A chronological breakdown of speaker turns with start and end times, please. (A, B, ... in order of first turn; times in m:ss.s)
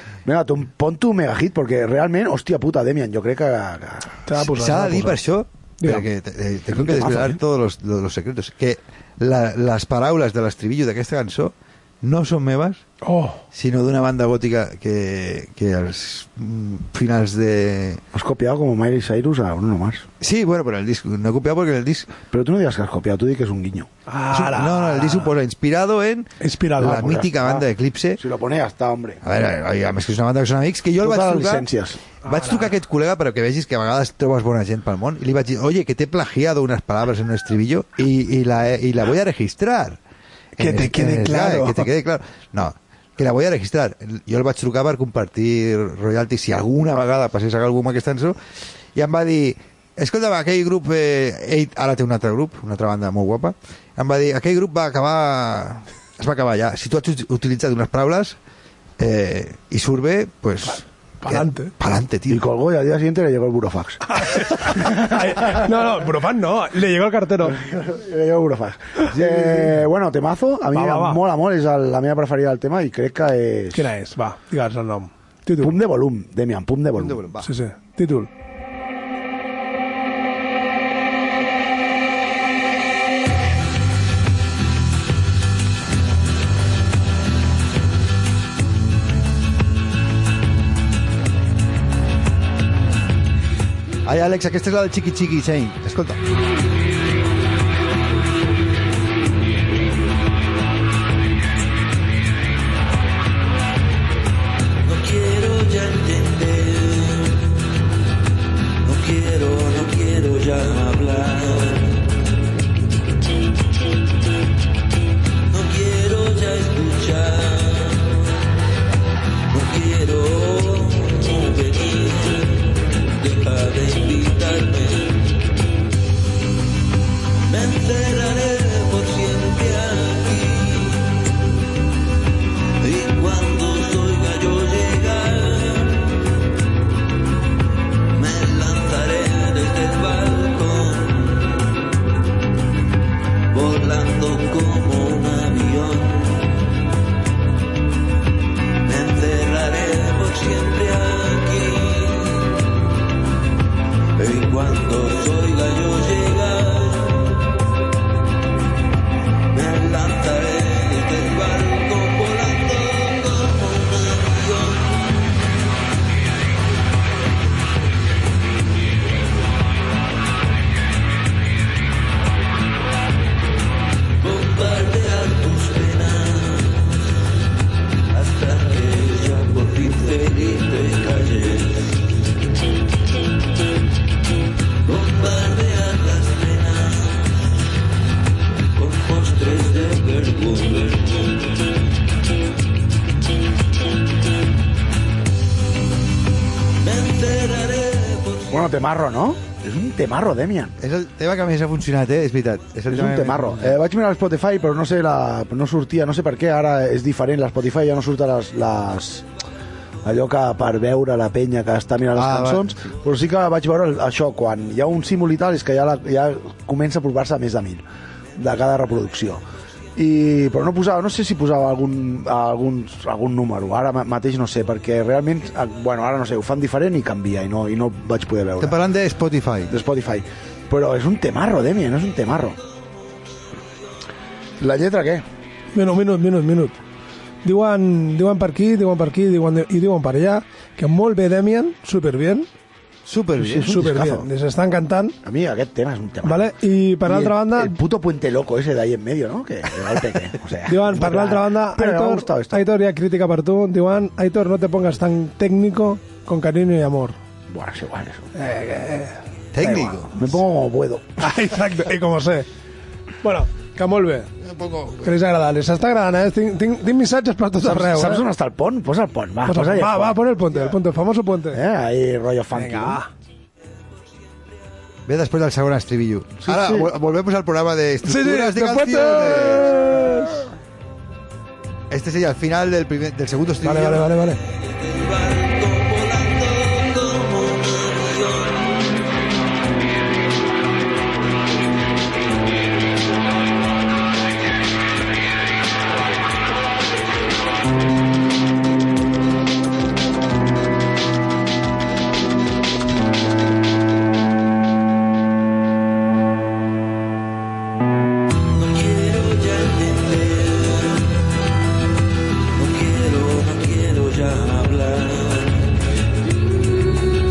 0:00.2-0:04.2 A
0:04.2-0:05.2 B
0:04.4-0:12.8 C
0:06.9-0:07.3 A
0:13.0-0:13.4 B
0:13.5-0:18.0 C
0:18.1-0:20.1 A
0:20.2-0:22.1 C
0:22.3-0:23.9 A
0:24.1-0:25.3 B
0:24.3-0:28.2 C
0:26.4-0:27.0 B
0:26.8-0:29.2 A
0:29.2-0:31.7 C
0:31.0-0:32.0 A
0:32.2-0:40.0 C
0:32.2-0:32.7 B
0:40.6-0:41.9 B
0:40.6-0:48.4 C
0:48.9-0:58.4 C
0:59.0-1:02.4 C
1:01.2-1:01.7 B
1:02.3-1:05.0 A
1:04.1-1:07.6 B
1:07.5-1:13.9 A
1:10.7-1:11.2 B
1:13.7-1:15.8 B
1:15.6-1:17.2 A
1:17.0-1:17.5 C
1:17.4-1:18.3 B
1:34.0-1:36.2 C
1:44.8-1:47.5 D
1:48.8-1:52.1 D
1:55.5-1:58.4 D
1:59.5-2:05.3 D
2:07.5-2:11.3 D
2:12.8-2:16.2 D
2:18.1-2:21.7 D
2:23.5-2:26.6 D
2:28.8-2:32.6 D
2:34.2-2:37.5 D
2:39.5-2:45.3 D
2:54.2-2:57.0 D
2:58.1-3:02.0 D
3:04.8-3:07.4 D
3:08.7-3:11.5 D
3:16.8-3:18.6 D
3:18.5-3:20.7 A
3:20.8-3:23.8 C
3:22.9-3:29.3 A
3:30.0-3:37.8 A
3:32.2-3:32.8 C
3:38.4-3:39.4 A
3:40.0-3:48.8 A
3:48.6-3:49.7 C
3:49.7-3:52.6 A
3:54.6-3:55.2 A
3:55.7-3:56.8 B
3:57.4-4:02.5 B
4:03.0-4:03.7 C
4:03.4-4:04.3 A
4:03.6-4:05.2 B
4:05.2-4:12.6 A
4:06.2-4:07.8 B
4:10.7-4:17.1 B
4:17.5-4:18.3 A
4:18.3-4:19.9 B
4:19.5-4:20.2 C
4:20.1-4:21.2 A
4:21.2-4:22.5 B
4:23.2-4:24.3 B
4:24.4-4:25.0 C
4:25.0-4:28.2 B
4:27.6-4:30.7 A
4:29.5-4:31.6 B
4:31.5-4:33.0 A
4:32.5-4:33.1 B
4:35.1-4:39.8 C
4:36.4-4:36.9 A
4:38.0-4:40.4 B
4:41.9-4:44.1 C
4:43.6-4:44.4 B
4:44.6-4:49.1 D
5:08.5-5:11.1 D
5:12.5-5:15.8 D